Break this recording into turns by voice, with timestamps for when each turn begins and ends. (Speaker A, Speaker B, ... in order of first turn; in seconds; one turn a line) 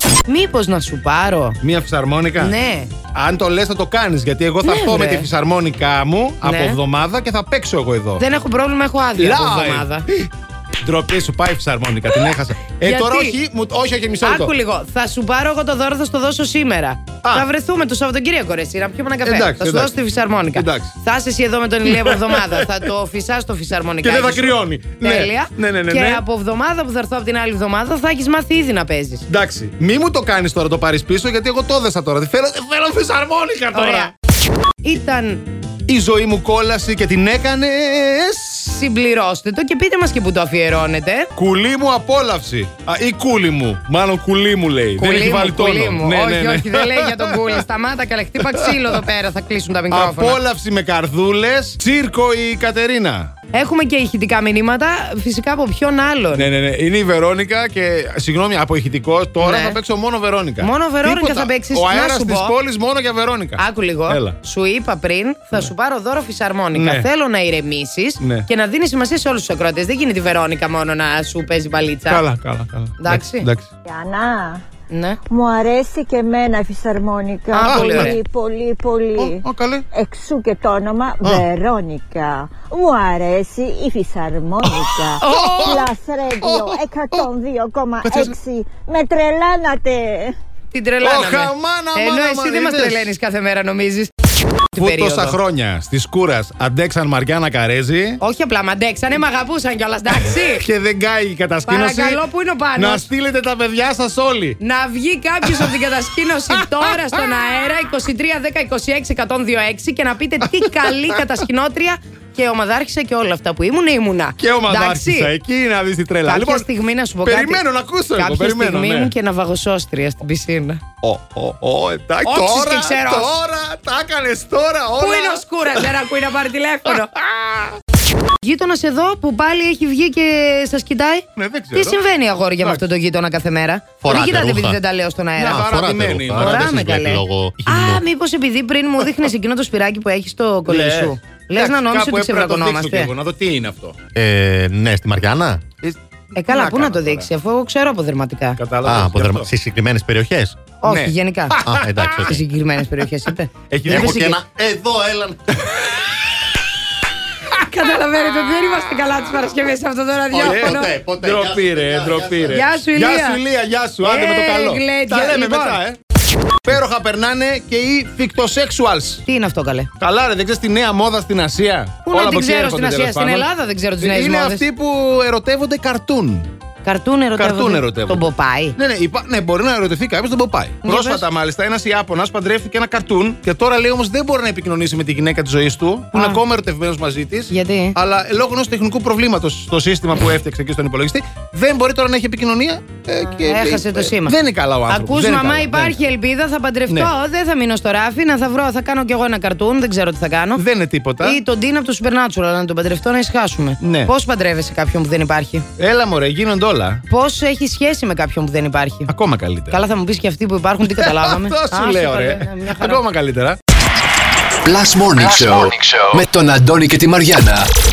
Speaker A: 0.3-1.6
Speaker B: 1.6-2.5
Speaker A: 2.4-2.9
Speaker B: 3.1-8.2
Speaker A: 4.6-5.3
Speaker A: 6.4-6.8
Speaker A: 8.2-10.1
Speaker B: 9.2-10.3
Speaker B: 10.8-14.5
Speaker A: 12.8-13.4
Speaker A: 14.2-29.2
Speaker B: 19.2-19.9
Speaker B: 20.5-20.9
Speaker B: 21.9-22.8
Speaker B: 24.0-26.2
Speaker B: 29.3-34.1
Speaker A: 33.7-34.1
Speaker A: 34.8-35.5
Speaker B: 35.9-38.7
Speaker A: 38.7-41.3
Speaker B: 41.4-47.6
Speaker A: 45.0-50.4
Speaker B: 48.4-49.0
Speaker B: 49.9-53.3
Speaker A: 53.5-56.5
Speaker B: 56.3-64.4
Speaker A: 59.4-59.8
Speaker A: 60.6-62.5
Speaker A: 63.6-72.2
Speaker B: 66.7-67.1
Speaker B: 68.2-68.5
Speaker B: 72.1-73.7
Speaker A: 73.0-73.5
Speaker C: 73.9-74.6
Speaker A: 74.9-75.2
Speaker C: 75.3-90.3
Speaker A: 77.5-78.2
Speaker B: 77.6-78.2
Speaker B: 79.2-79.9
Speaker B: 84.7-87.3
Speaker B: 88.0-88.3
Speaker A: 90.7-94.1
Speaker B: 91.0-93.1
Speaker A: 94.7-95.4
Speaker B: 94.8-98.2
Speaker A: 98.2-100.6
Speaker B: 100.5-102.2
Speaker A: 101.6-103.1
Speaker B: 102.8-104.6
Speaker A: 104.6-115.3
Speaker B: 105.5-105.7
Speaker B: 106.6-107.1
Speaker B: 110.6-111.2
Speaker B: 114.4-116.7
Speaker A: 116.2-120.8
Speaker B: 117.2-119.1
Speaker B: 121.0-125.9
Speaker A: 122.2-123.3
Speaker A: 125.0-127.1
Speaker B: 126.9-127.8
Speaker A: 128.4-131.2
Speaker B: 131.3-132.0
Speaker A: 131.7-135.7
Speaker D: 134.0-134.8
Speaker B: 135.4-137.2
Speaker D: 135.4-138.0
Speaker A: 136.3-143.1
Speaker B: 140.7-144.0
Speaker D: 144.1-145.6
Speaker B: 145.8-147.3
Speaker A: 146.3-148.6
Speaker B: 148.6-149.5
Speaker D: 148.8-150.6
Speaker A: 150.8-151.6
Speaker B: 150.8-152.4
Speaker D: 151.6-152.4
Speaker A: 152.1-154.3
Speaker B: 153.7-154.4
Speaker D: 153.8-155.4
Speaker B: 155.7-156.1
Speaker A: 157.5-160.9
Speaker D: 160.3-162.6
Speaker B: 160.3-166.0
Speaker A: 162.5-163.4
Speaker A: 164.0-165.8
Speaker B: 166.6-169.2
Speaker A: 169.2-169.9
Speaker B: 170.0-173.5
Speaker A: 172.1-174.6
Speaker B: 174.0-176.5
Speaker A: 176.8-178.8
Speaker B: 177.3-195.9
Speaker A: 180.8-181.2
Speaker A: 186.1-186.4
Speaker A: 187.5-188.0
Speaker A: 193.2-200.6
Speaker B: 200.6-201.4
Speaker A: 201.2-205.7
Speaker B: 203.8-204.1
Speaker B: 205.8-207.0
Speaker A: 207.1-209.1
Speaker B: 209.1-209.8
Speaker A: 209.7-213.0
Speaker B: 210.8-213.6
Speaker E: 214.6-217.7